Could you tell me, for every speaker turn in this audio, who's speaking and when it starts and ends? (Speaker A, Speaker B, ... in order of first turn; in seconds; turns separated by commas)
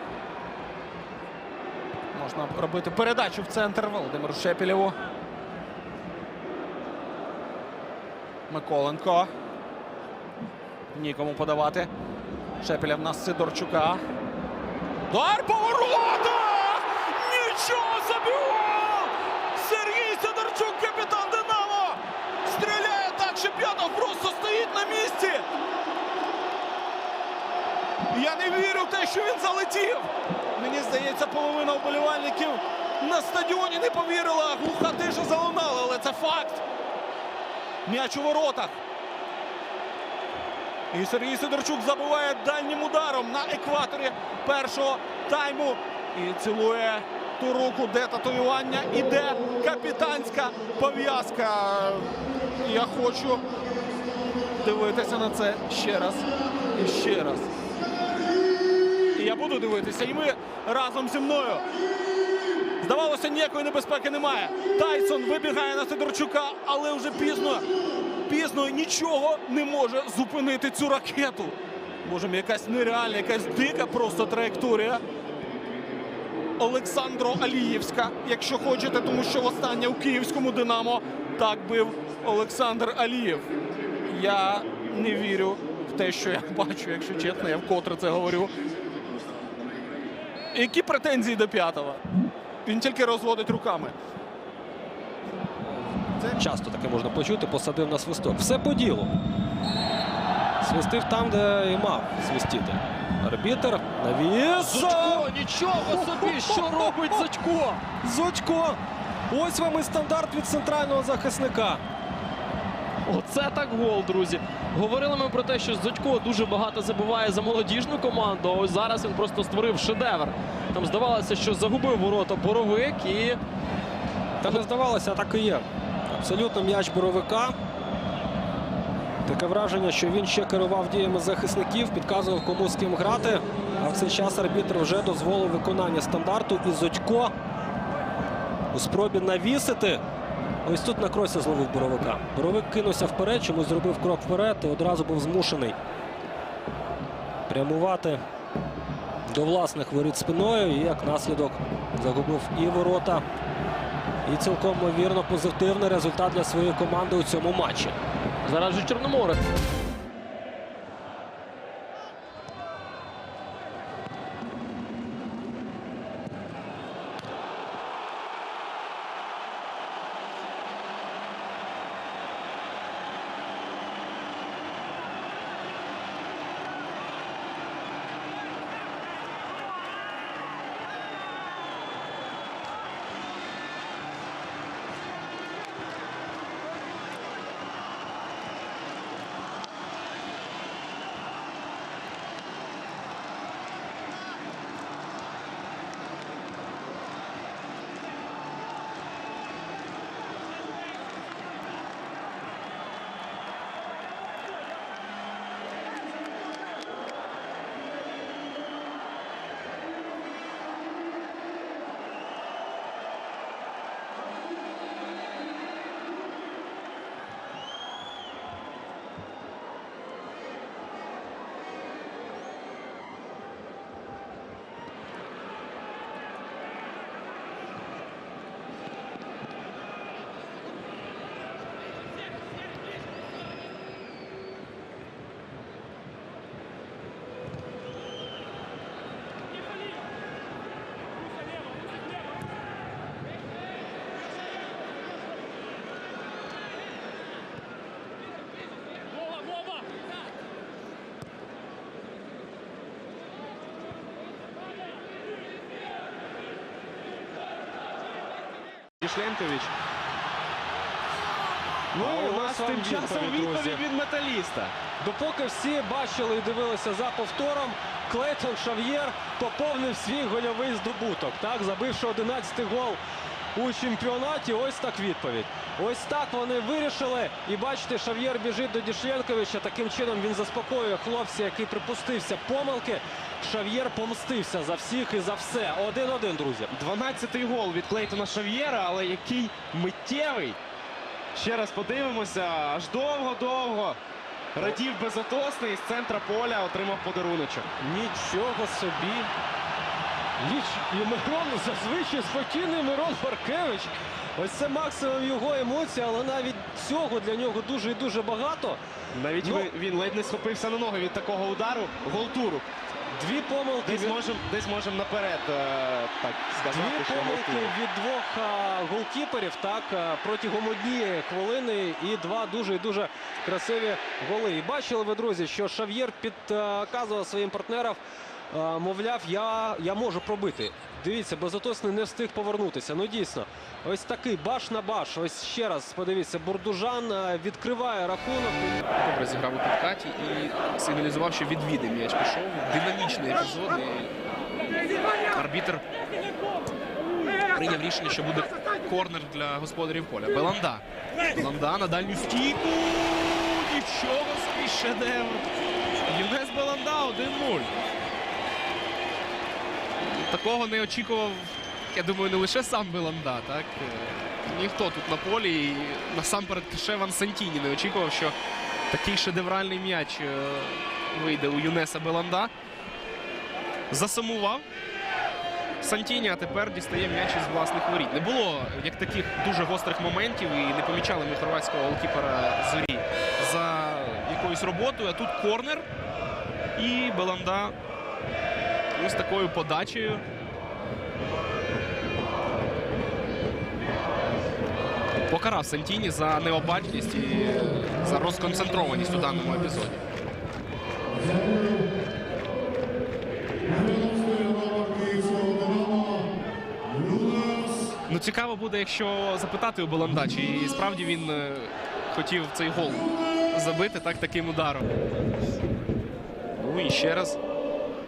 Speaker A: 2.1-5.0, Speaker A: 8.5-9.3, Speaker A: 10.9-11.9, Speaker A: 12.6-14.0, Speaker A: 15.1-25.4, Speaker A: 28.1-36.6, Speaker A: 37.9-38.8, Speaker A: 40.9-53.4, Speaker A: 54.6-57.5, Speaker A: 59.1-61.6, Speaker A: 62.8-67.7, Speaker A: 68.2-75.0, Speaker A: 76.6-83.5, Speaker A: 84.1-88.5, Speaker A: 90.5-92.0, Speaker A: 92.7-94.0, Speaker B: 96.3-99.1, Speaker B: 100.6-105.3, Speaker C: 105.5-106.1, Speaker B: 106.0-107.2, Speaker B: 107.9-108.8, Speaker B: 109.3-111.8, Speaker C: 113.1-123.4, Speaker B: 124.4-127.6, Speaker B: 129.2-137.3, Speaker B: 138.7-140.0, Speaker B: 140.6-145.8, Speaker B: 147.5-148.2, Speaker B: 149.3-153.2, Speaker B: 154.2-158.0, Speaker C: 158.4-159.5, Speaker D: 259.0-259.7, Speaker D: 261.9-264.8, Speaker B: 261.9-263.8, Speaker B: 265.0-273.0, Speaker B: 273.6-286.7, Speaker D: 286.7-290.6, Speaker D: 291.3-294.0, Speaker D: 294.6-297.7, Speaker B: 297.8-299.3, Speaker B: 300.4-308.8, Speaker D: 309.1-312.6, Speaker B: 309.4-309.7, Speaker B: 313.1-314.2, Speaker D: 313.8-317.7, Speaker B: 316.6-328.0, Speaker B: 328.5-338.8, Speaker E: 338.9-344.1, Speaker E: 345.3-345.8, Speaker E: 347.5-355.4, Speaker E: 356.1-357.8, Speaker E: 360.1-368.3, Speaker E: 368.9-372.5, Speaker E: 373.9-374.6, Speaker E: 375.8-385.9, Speaker E: 386.8-387.8, Speaker E: 388.9-390.2, Speaker E: 395.3-400.0, Speaker E: 408.1-414.8, Speaker E: 416.6-417.4